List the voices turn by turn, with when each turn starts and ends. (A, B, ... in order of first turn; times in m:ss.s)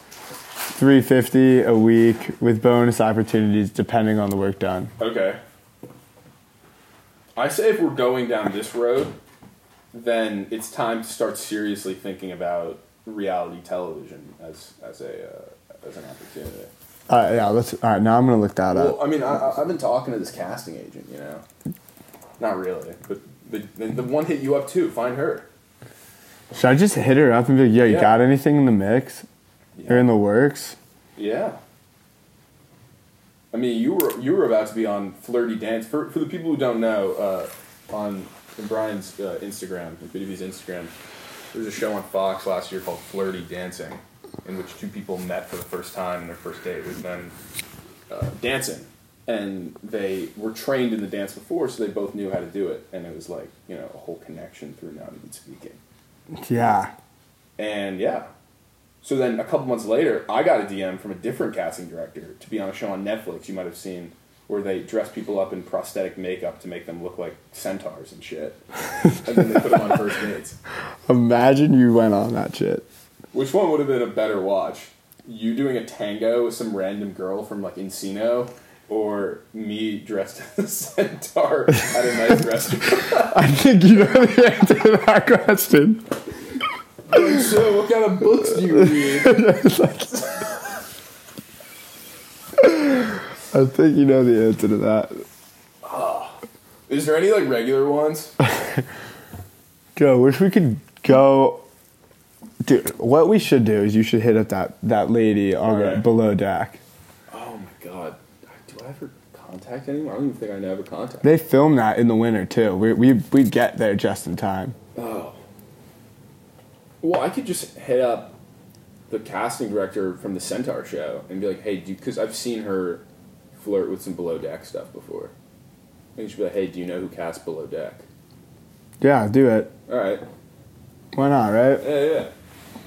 0:00.7-0:04.9 A
0:05.0-0:05.4 B
0:07.4-0:09.2 B
0:09.9-0:16.7 B
0:17.1-0:19.0 A
0:18.7-0:21.4 B
0:22.4-0:25.5 B
0:26.5-0:29.2 A
0:27.8-0:28.2 B
0:29.8-0:30.1 B
0:29.9-0:30.8 A
0:31.2-0:31.6 B
0:33.5-0:40.9 B
0:41.5-0:47.3 B
0:48.1-0:55.8 B
0:56.3-0:56.9 A
0:57.6-0:58.3 B
0:59.0-1:10.6 B
1:11.1-1:12.9 A
1:13.3-1:23.4 B
1:23.3-1:26.1 A
1:27.1-1:29.5 B
1:29.0-1:30.3 A
1:32.6-1:35.2 A
1:35.8-1:38.3 B
1:40.0-1:41.6 A
1:42.6-1:46.8 A
1:45.6-1:46.1 B
1:47.3-1:51.3 B
1:51.2-1:54.8 A
1:54.9-1:55.4 B
1:57.0-1:58.4 B
1:59.1-2:03.0 B
2:03.6-2:05.3 B
2:06.2-2:08.0 B
2:09.0-2:09.7 A
2:09.9-2:10.2 B
2:11.1-2:11.8 A
2:11.8-2:12.3 B